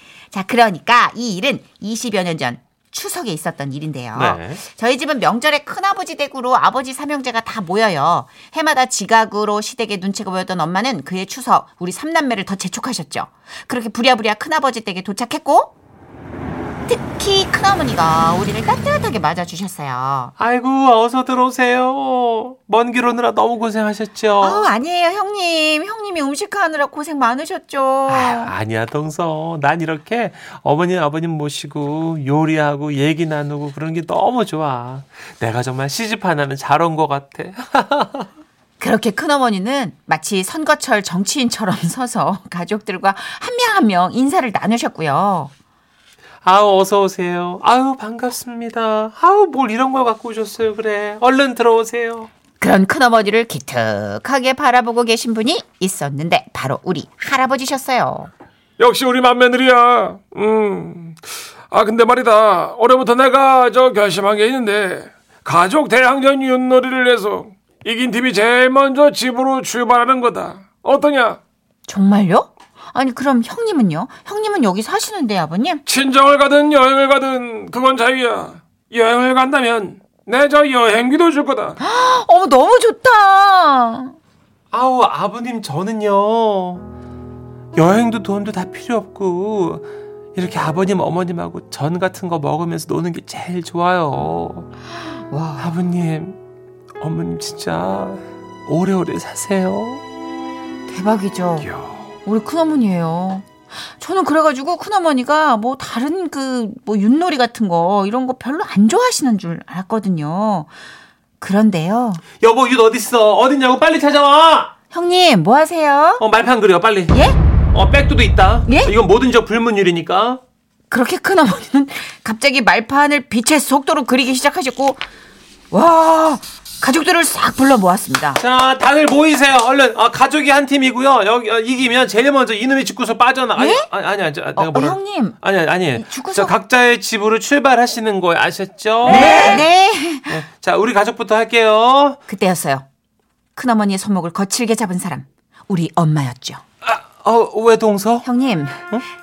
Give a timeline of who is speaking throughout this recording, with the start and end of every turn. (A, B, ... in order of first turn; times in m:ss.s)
0:00.3-0:15.7 A
0:04.1-0:04.6 B
0:16.9-0:20.3 A
0:20.4-0:24.7 B
0:24.4-0:28.5 A
0:28.1-0:38.3 B
0:38.8-0:45.5 A
0:46.4-0:52.3 B
0:52.6-0:58.3 A
0:58.8-1:01.2 C
1:01.7-1:11.4 C
1:11.9-1:15.8 A
1:15.9-1:21.8 C
1:21.8-1:24.2 A
1:24.7-1:26.8 B
1:27.8-1:34.7 B
1:35.1-1:35.8 A
1:35.6-1:36.4 B
1:37.0-1:40.0 B
1:40.9-1:41.7 A
1:41.6-1:42.1 B
1:42.2-1:50.7 A
1:51.4-1:52.2 A
1:52.4-1:54.7 B
1:54.9-1:56.2 A
1:56.2-1:57.2 B
1:57.1-1:57.4 A
1:57.7-2:00.4 B
1:58.7-1:58.9 A
2:00.9-2:05.0 A
2:05.7-2:08.4 A
2:08.4-2:19.7 B
2:13.6-2:13.9 A
2:14.6-2:15.4 A
2:16.0-2:16.5 A
2:19.1-2:20.4 A
2:20.3-2:22.2 B
2:22.3-2:22.9 A
2:23.6-2:26.6 A
2:26.8-2:28.3 B
2:28.2-2:28.8 A